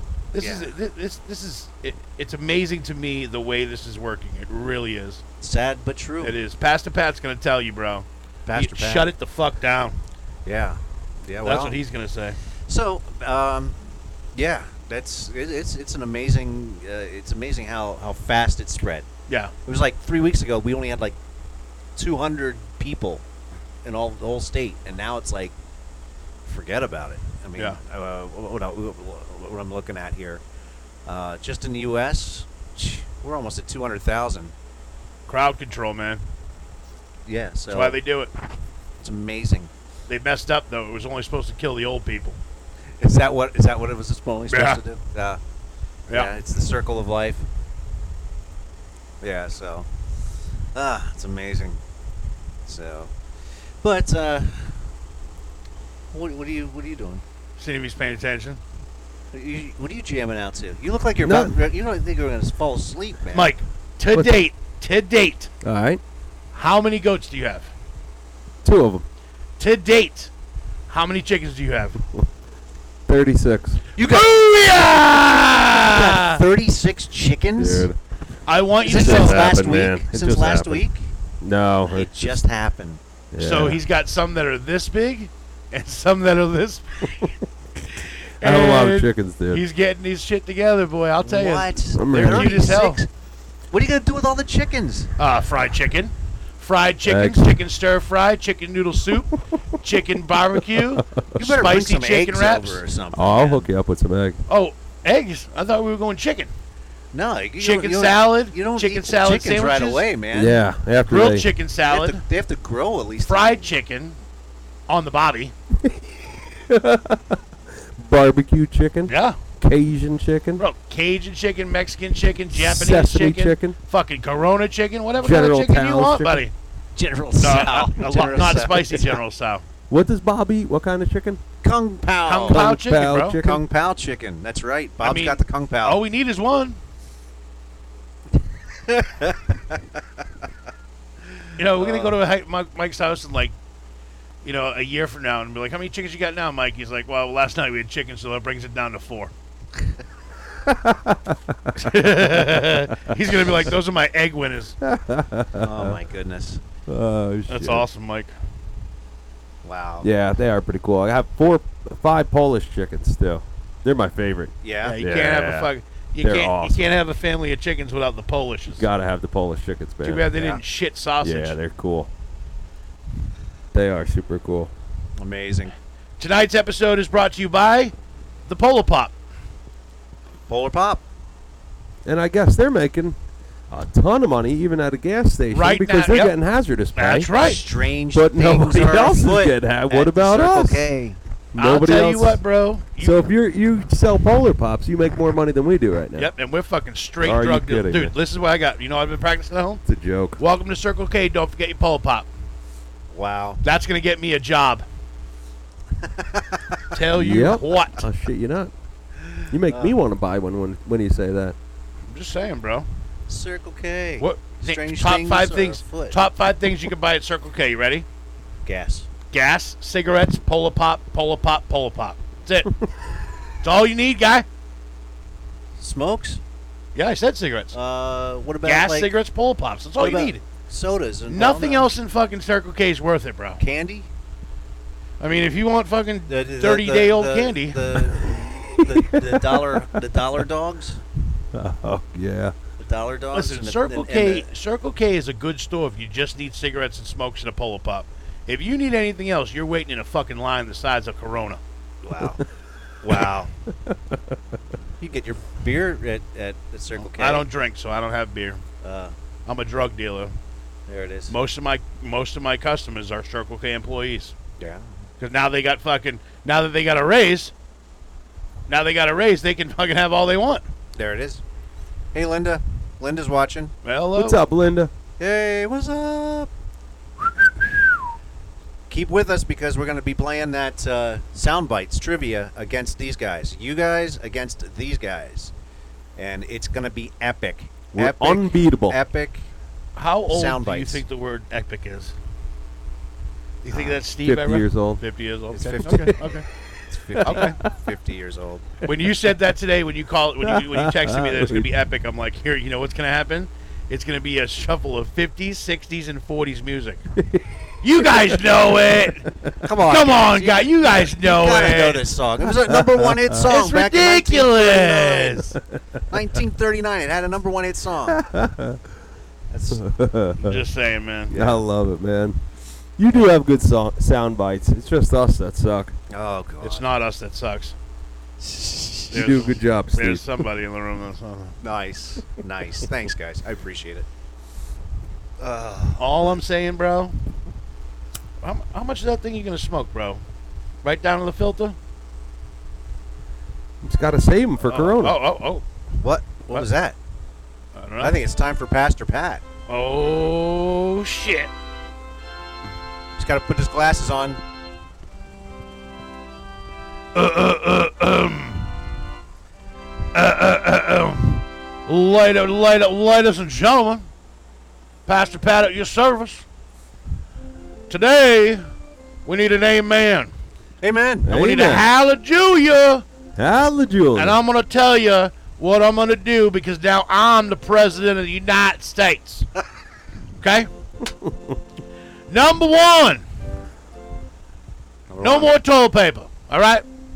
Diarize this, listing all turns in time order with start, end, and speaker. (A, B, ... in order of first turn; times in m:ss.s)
0:00.3-0:05.2 A
0:00.4-0:00.7 B
0:05.4-0:06.4 B
0:06.2-0:10.0 A
0:08.5-0:09.1 B
0:10.4-0:11.8 B
0:11.4-0:12.4 A
0:12.7-0:13.8 B
0:14.3-0:19.0 B
0:19.3-0:19.5 A
0:19.6-0:21.2 B
0:22.0-0:23.2 B
0:23.8-0:25.5 B
0:26.4-0:30.4 B
0:31.0-0:34.5 B
0:35.3-0:36.2 A
0:37.2-0:38.0 B
0:37.7-0:38.3 A
0:39.0-0:39.7 B
0:40.1-0:42.4 A
0:43.0-0:45.4 B
0:44.5-0:44.8 A
0:46.1-0:47.5 B
0:49.2-0:49.9 B
0:50.7-0:51.8 B
0:52.6-0:53.1 B
0:53.8-0:54.8 B
0:56.1-0:57.2 B
0:57.6-0:58.6 A
0:59.3-1:03.5 B
1:01.2-1:01.5 C
1:03.3-1:05.5 A
1:04.1-1:04.4 C
1:05.6-1:06.0 C
1:06.5-1:07.7 A
1:08.6-1:09.0 C
1:09.6-1:10.3 A
1:10.9-1:12.0 A
1:13.1-1:13.8 C
1:14.0-1:14.4 B
1:14.0-1:16.4 A
1:15.8-1:17.9 B
1:17.6-1:18.0 C
1:18.4-1:19.5 A
1:18.8-1:21.1 B
1:18.8-1:20.9 C
1:21.4-1:22.2 C
1:21.9-1:23.0 B
1:23.3-1:23.8 C
1:23.4-1:27.2 A
1:28.4-1:29.6 C
1:28.4-1:33.0 A
1:31.2-1:33.1 B
1:31.9-1:32.8 C
1:33.7-1:35.1 B
1:35.2-1:42.8 A
1:37.0-1:37.6 C
1:40.7-1:41.6 C
1:41.4-1:43.7 B
1:43.1-1:44.4 C
1:44.5-1:46.5 A
1:47.1-1:50.7 B
1:47.6-1:50.1 A
1:50.3-1:51.5 C
1:51.1-1:52.2 A
1:51.9-1:53.7 B
1:53.2-1:54.2 A
1:54.9-1:55.5 A
1:55.8-1:57.4 C
1:58.0-2:00.6 C
1:59.1-1:59.4 A
2:00.6-2:06.5 A
2:02.5-2:03.8 C
2:05.2-2:06.4 C
2:07.0-2:09.2 B
2:07.4-2:09.6 A
2:09.9-2:11.4 C
2:11.6-2:12.6 B
2:12.3-2:13.4 A
2:12.5-2:13.6 C
2:13.4-2:16.0 B
2:15.0-2:16.8 A
2:18.9-2:19.3 B
2:21.6-2:23.5 A
2:21.8-2:22.1 B
2:24.4-2:29.3 A
2:30.6-2:32.9 C
2:31.8-2:34.8 A
2:34.8-2:36.0 C
2:35.6-2:36.6 B
2:36.9-2:37.8 C
2:37.5-2:38.3 A
2:39.6-2:40.1 B
2:40.0-2:46.9 C
2:44.6-2:45.0 B
2:44.8-2:48.8 A
2:48.8-2:50.5 C
2:50.0-2:51.6 A
2:51.2-2:52.1 C
2:53.7-2:54.7 C
2:55.2-2:55.7 B
2:56.2-2:57.9 A
2:58.5-2:59.1 A
3:00.5-3:01.0 B
3:02.0-3:03.2 C
3:03.7-3:07.3 C
3:05.5-3:06.4 A
3:06.9-3:07.6 A
3:07.3-3:11.2 B
3:08.1-3:10.8 C
3:11.5-3:12.4 C
3:11.6-3:13.3 A
3:13.0-3:16.3 C
3:16.2-3:19.8 A
3:17.2-3:18.1 C
3:19.8-3:20.4 C
3:20.4-3:22.3 A
3:23.1-3:23.6 B
3:23.6-3:24.8 A
3:26.0-3:26.8 B
3:26.9-3:28.0 A
3:27.1-3:28.7 C
3:29.4-3:29.9 B
3:29.5-3:31.6 C
3:32.1-3:32.9 A
3:33.3-3:36.2 B
3:34.2-3:38.0 A
3:38.6-3:39.1 B
3:39.3-3:42.7 A
3:43.6-3:44.4 A
3:45.8-3:46.4 B
3:46.9-3:47.7 A
3:47.7-3:49.1 B
3:48.6-3:50.4 A
3:50.0-3:51.9 B
3:51.3-3:53.6 A
3:53.6-3:54.1 B
3:55.2-3:58.0 A
3:56.3-4:01.0 B
3:58.4-4:00.0 C
4:01.5-4:02.5 C
4:02.8-4:04.5 B
4:03.3-4:11.6 A
4:12.0-4:12.4 B
4:13.0-4:13.5 B
4:13.8-4:14.4 C
4:15.0-4:17.5 B
4:17.0-4:18.6 A
4:18.8-4:19.1 B
4:19.5-4:20.3 A
4:20.9-4:21.3 B
4:21.3-4:24.3 A
4:24.6-4:24.9 B
4:25.2-4:27.5 A
4:28.7-4:30.6 A
4:31.0-4:31.4 B
4:32.1-4:33.7 B
4:33.8-4:34.4 A
4:34.1-4:34.9 C
4:35.2-4:36.5 B
4:38.9-4:45.5 B
4:46.2-4:49.4 B
4:47.9-4:49.0 C
4:50.0-4:52.1 A
4:50.3-4:51.0 B
4:53.6-4:56.4 A
4:53.7-4:54.0 B
4:54.2-4:55.0 C
4:55.5-4:56.2 B
4:56.9-4:58.7 B
4:57.1-4:57.6 C
4:57.2-4:57.5 A
4:58.8-5:07.0 A
5:00.4-5:01.7 C
5:07.2-5:09.3 C
5:07.8-5:09.3 A
5:09.6-5:15.4 B
5:09.8-5:12.0 A
5:12.5-5:13.4 C
5:13.5-5:15.6 A
5:16.1-5:18.2 B
5:18.1-5:18.8 C
5:19.5-5:19.8 B
5:19.7-5:20.6 C
5:20.4-5:21.4 A
5:21.3-5:22.4 C
5:23.0-5:26.0 C
5:26.1-5:26.8 B
5:26.6-5:27.7 A
5:28.4-5:29.1 B
5:29.1-5:30.3 C
5:29.1-5:31.6 A
5:31.6-5:34.0 B
5:35.4-5:36.4 B
5:36.0-5:37.3 A
5:38.4-5:40.2 A
5:40.8-5:41.8 A
5:43.8-5:45.2 C
5:44.7-5:45.6 A
5:46.0-5:47.0 B
5:47.8-5:48.1 A
5:48.0-5:49.4 B
5:49.7-5:51.5 A
5:53.2-5:54.4 B
5:57.1-5:58.7 A
6:00.1-6:04.0 A
6:05.1-6:06.4 A
6:07.9-6:08.6 A
6:09.2-6:10.3 A
6:10.8-6:11.3 B
6:11.2-6:11.9 C
6:11.3-6:13.0 A
6:13.4-6:14.4 C
6:14.2-6:19.5 A
6:20.4-6:20.7 A
6:22.3-6:23.2 A
6:25.1-6:25.5 B
6:25.2-6:26.8 A